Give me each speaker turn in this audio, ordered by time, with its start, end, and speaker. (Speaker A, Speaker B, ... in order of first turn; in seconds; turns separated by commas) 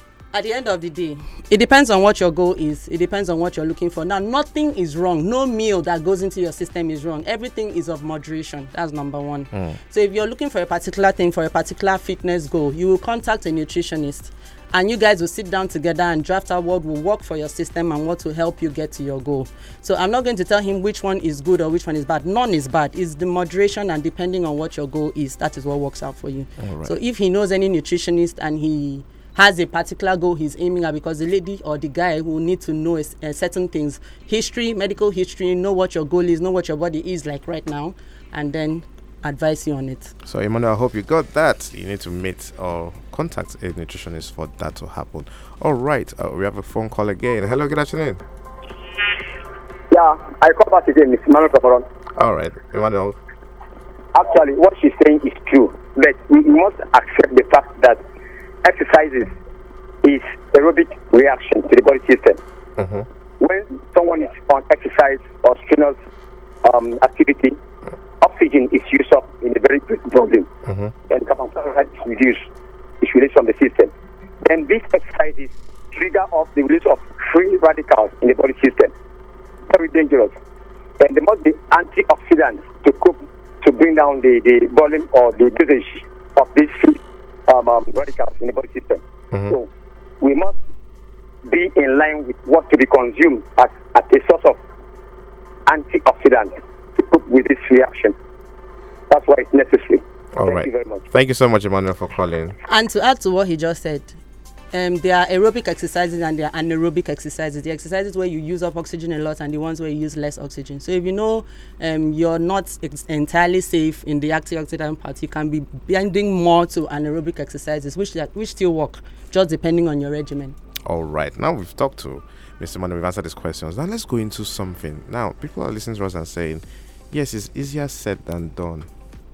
Speaker A: 0.3-40.1, Speaker B: 9.5-9.8, Speaker B: 26.6-26.9, Speaker B: 40.2-48.2, Speaker C: 49.9-51.9, Speaker B: 52.2-53.2, Speaker C: 54.1-58.0, Speaker C: 58.6-59.3, Speaker C: 60.0-62.4, Speaker B: 62.8-63.1, Speaker C: 63.4-66.0, Speaker C: 66.6-67.6, Speaker C: 68.2-70.5, Speaker B: 70.7-70.9, Speaker C: 71.1-72.5, Speaker C: 73.0-73.9, Speaker C: 74.5-78.9, Speaker C: 79.7-80.3, Speaker C: 81.0-89.7, Speaker C: 90.2-90.5, Speaker C: 91.5-94.6, Speaker C: 95.7-98.2, Speaker C: 99.1-101.0, Speaker B: 100.3-102.6, Speaker A: 102.7-104.2, Speaker A: 104.7-120.6, Speaker B: 120.9-128.9